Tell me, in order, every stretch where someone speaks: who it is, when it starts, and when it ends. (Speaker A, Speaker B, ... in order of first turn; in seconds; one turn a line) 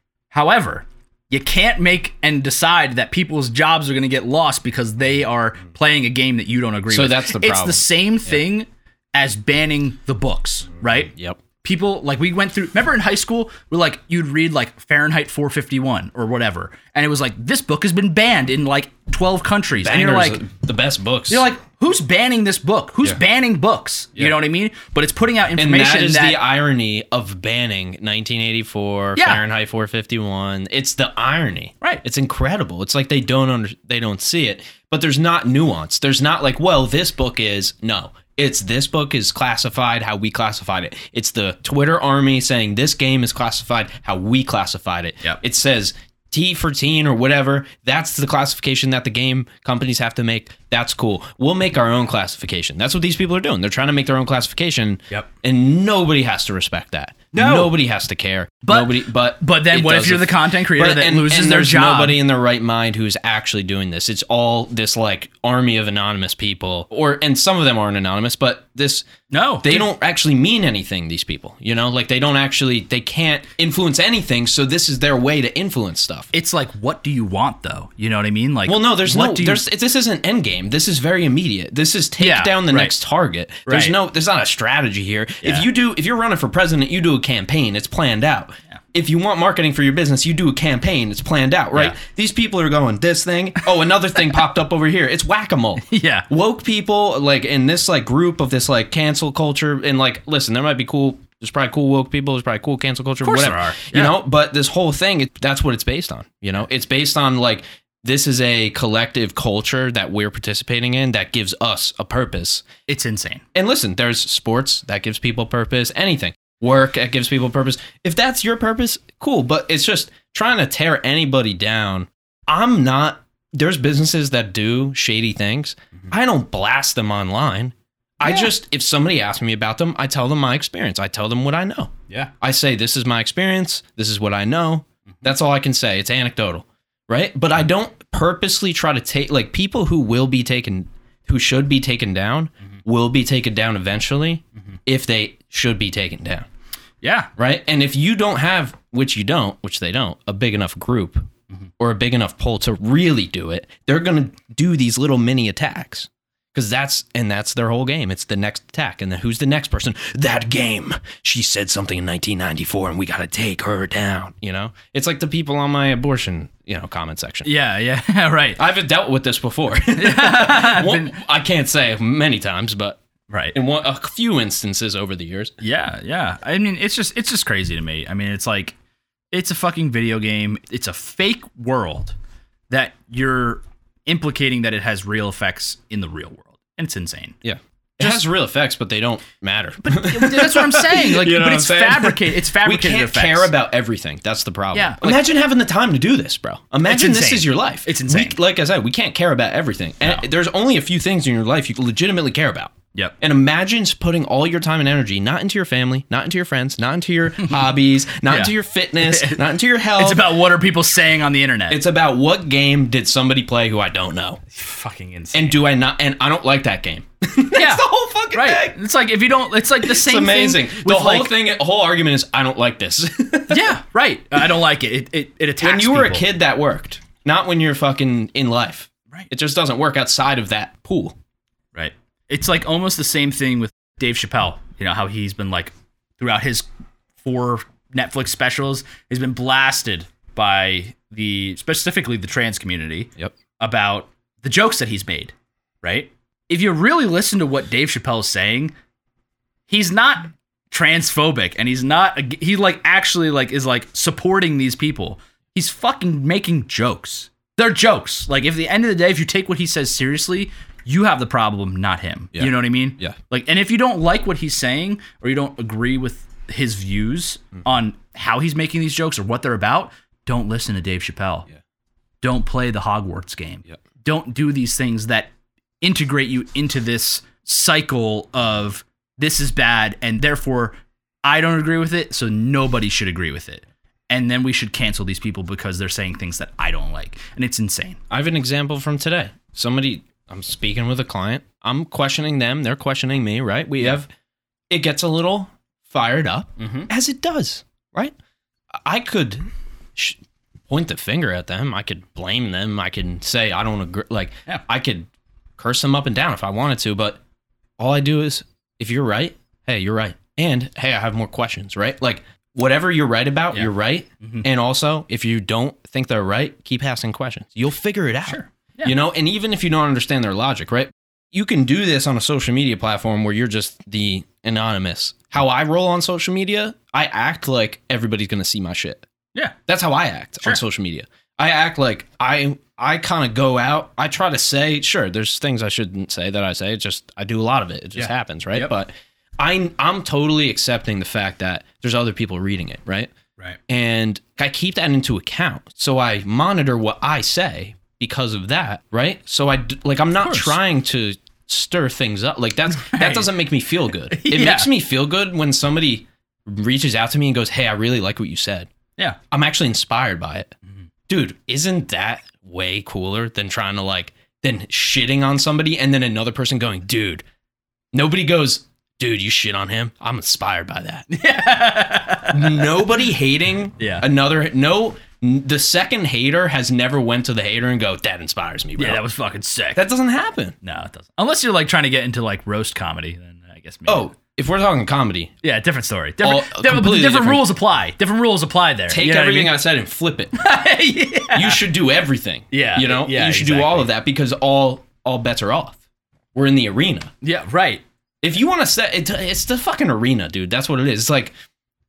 Speaker A: 0.3-11.1
Speaker B: 6.9-7.8
Speaker B: 11.1-11.4
Speaker A: 11.6-20.4
Speaker B: 19.8-21.4
Speaker A: 21.3-26.4
Speaker B: 25.6-69.1
Speaker A: 29.1-29.4
Speaker A: 57.3-57.7
Speaker A: 58.6-62.2
Speaker A: 69.3-69.9
Speaker B: 69.6-76.3
Speaker A: 76.3-79.6
Speaker B: 78.7-112.7
Speaker A: 82.2-82.9
Speaker A: 83.7-84.0
Speaker A: 95.8-96.2
Speaker A: 103.2-104.1
Speaker A: 112.9-113.4
Speaker B: 113.5-146.5
Speaker A: 128.2-128.5
Speaker A: 147.0-147.3
Speaker B: 147.4-151.3
Speaker B: 151.8-167.5
Speaker A: 167.4-168.6
Speaker B: 168.6-173.0
Speaker A: 169.9-171.2
Speaker A: 173.3-173.5
Speaker B: 173.5-175.5
Speaker A: 175.6-178.8
Speaker A: 179.3-182.2
Speaker A: 182.7-187.4
Speaker B: 187.4-210.2
Speaker A: 188.0-188.2
Speaker A: 189.8-193.5
Speaker A: 194.7-195.2
Speaker A: 196.8-198.4
Speaker A: 208.2-209.4
Speaker A: 210.0-211.8
Speaker B: 211.7-214.4
Speaker A: 214.5-215.6
Speaker B: 215.3-218.8
Speaker A: 217.5-221.3
Speaker B: 219.8-223.7
Speaker A: 223.5-226.2
Speaker B: 225.6-231.2
Speaker A: 231.7-236.7
Speaker A: 237.2-248.7
Speaker A: 249.7-271.5
Speaker B: 262.3-263.2
Speaker A: 272.2-288.0
Speaker B: 288.1-294.1
Speaker B: 294.7-298.1
Speaker A: 296.6-296.9
Speaker B: 298.8-300.2
Speaker B: 300.7-307.2
Speaker B: 307.8-329.1
Speaker A: 313.5-314.4
Speaker A: 318.3-318.9
Speaker B: 329.7-343.1
Speaker A: 338.0-338.7
Speaker B: 343.7-358.7
Speaker A: 350.2-350.5
Speaker A: 352.7-353.3
Speaker A: 354.1-354.7
Speaker B: 359.3-360.5
Speaker B: 361.1-367.2
Speaker B: 367.9-371.1
Speaker A: 371.1-372.8
Speaker B: 372.3-379.0
Speaker A: 373.8-374.0
Speaker A: 378.8-379.8
Speaker B: 379.8-380.6
Speaker A: 380.6-384.0
Speaker B: 383.9-385.3
Speaker A: 385.4-389.5
Speaker B: 386.2-387.4
Speaker B: 388.9-390.4
Speaker A: 390.4-391.6
Speaker B: 391.3-395.8
Speaker A: 392.5-393.9
Speaker B: 396.3-397.1
Speaker A: 397.2-397.8
Speaker B: 398.2-401.3